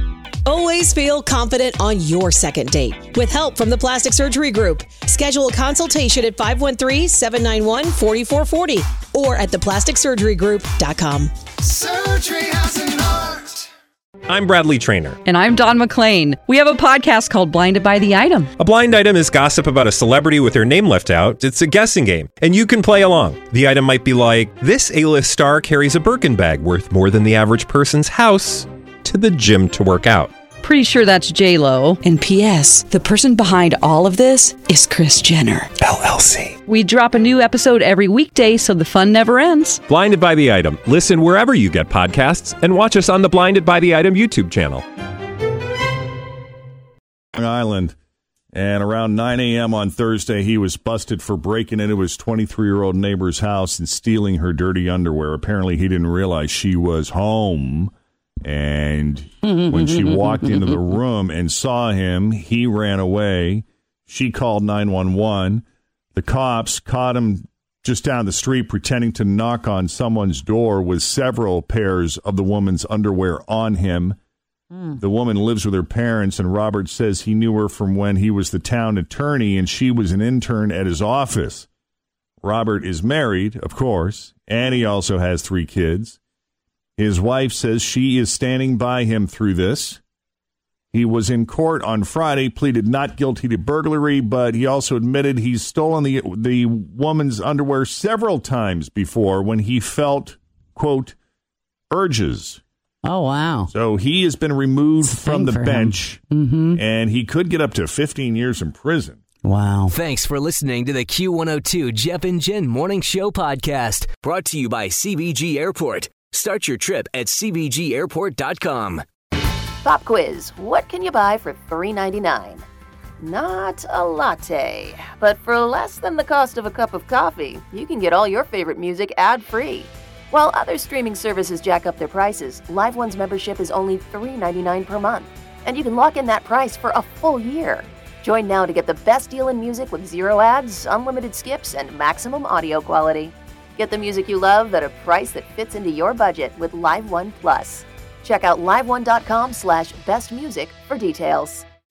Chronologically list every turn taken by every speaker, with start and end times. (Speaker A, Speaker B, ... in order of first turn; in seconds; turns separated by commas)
Speaker A: 0.5-11.3, Speaker B: 14.3-15.2, Speaker C: 15.2-18.5, Speaker B: 18.6-30.3, Speaker C: 30.6-35.7, Speaker C: 36.6-39.8, Speaker B: 39.9-44.8, Speaker D: 47.3-47.9, Speaker D: 48.5-57.9, Speaker D: 58.4-74.2, Speaker E: 59.4-60.8, Speaker D: 75.0-81.7, Speaker D: 82.4-86.2, Speaker D: 87.0-90.0, Speaker D: 90.9-101.2, Speaker D: 101.9-102.6, Speaker E: 103.0-103.7, Speaker D: 103.7-106.2, Speaker E: 105.0-106.8, Speaker D: 106.8-109.2, Speaker E: 109.4-110.0, Speaker F: 109.9-119.0, Speaker G: 119.8-122.6, Speaker G: 123.2-151.6